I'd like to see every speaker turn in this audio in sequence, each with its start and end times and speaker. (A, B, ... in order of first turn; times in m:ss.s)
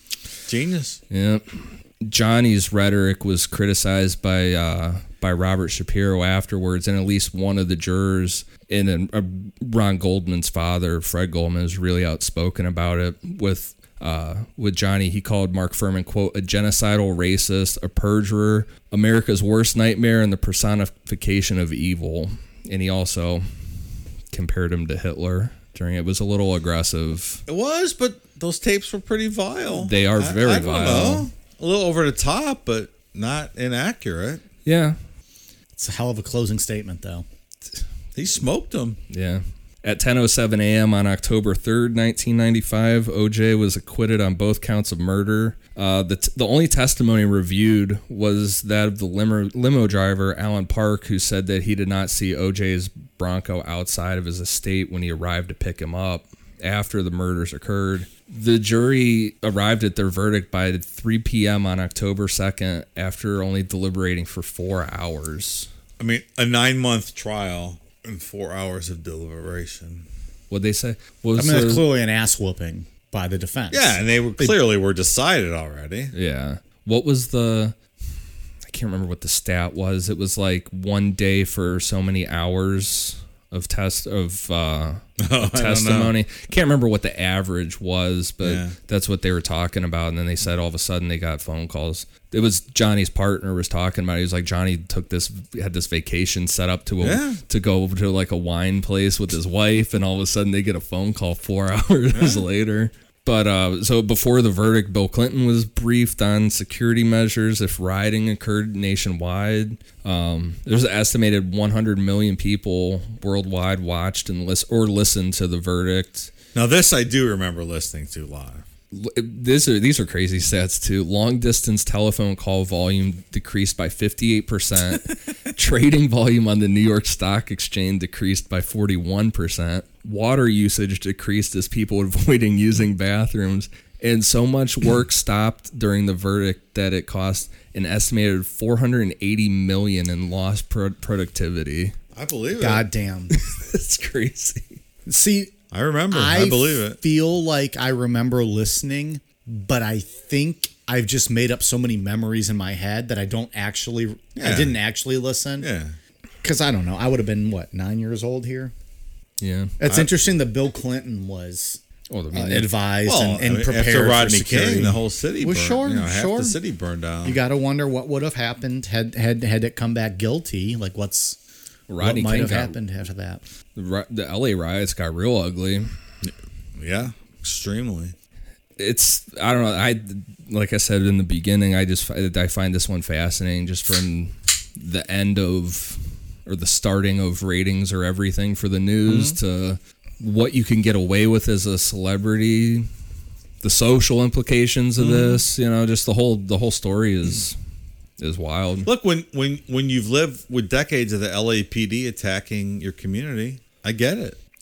0:00.5-0:01.0 A
0:01.1-0:23.4 B
0:24.3-0:27.4 B
0:27.5-0:34.4 A
0:29.7-0:31.3 B
0:34.6-0:35.0 B
0:35.8-0:37.2 C
0:38.1-0:39.0 A
0:39.1-1:05.7 B
1:06.0-1:10.0 A
1:10.5-1:11.8 B
1:11.4-1:14.5 C
1:13.7-1:16.1 A
1:16.1-1:17.8 B
1:18.6-1:56.3 B
1:25.2-1:26.1 A
1:28.4-1:28.7 A
1:37.0-1:37.4 A
1:42.1-1:42.4 A
1:56.5-1:58.6 A
1:58.9-2:21.9 B
2:22.1-2:22.8 A
2:22.6-2:23.3 C
2:23.3-2:24.8 B
2:25.0-2:25.5 C
2:25.7-2:27.0 A
2:26.1-2:35.7 C
2:34.4-2:34.8 A
2:35.6-2:35.9 A
2:36.4-2:38.7 C
2:39.4-2:39.8 B
2:39.8-2:41.8 C
2:42.1-2:42.7 B
2:42.3-2:46.6 C
2:43.0-2:47.4 A
2:47.2-2:51.4 C
2:51.9-2:52.8 B
2:52.0-2:53.4 C
2:53.8-2:55.9 B
2:56.2-2:58.1 A
2:58.8-3:12.9 B
3:09.1-3:09.4 A
3:13.6-3:17.6 B
3:15.0-3:15.4 A
3:18.2-3:18.9 B
3:18.8-3:24.4 A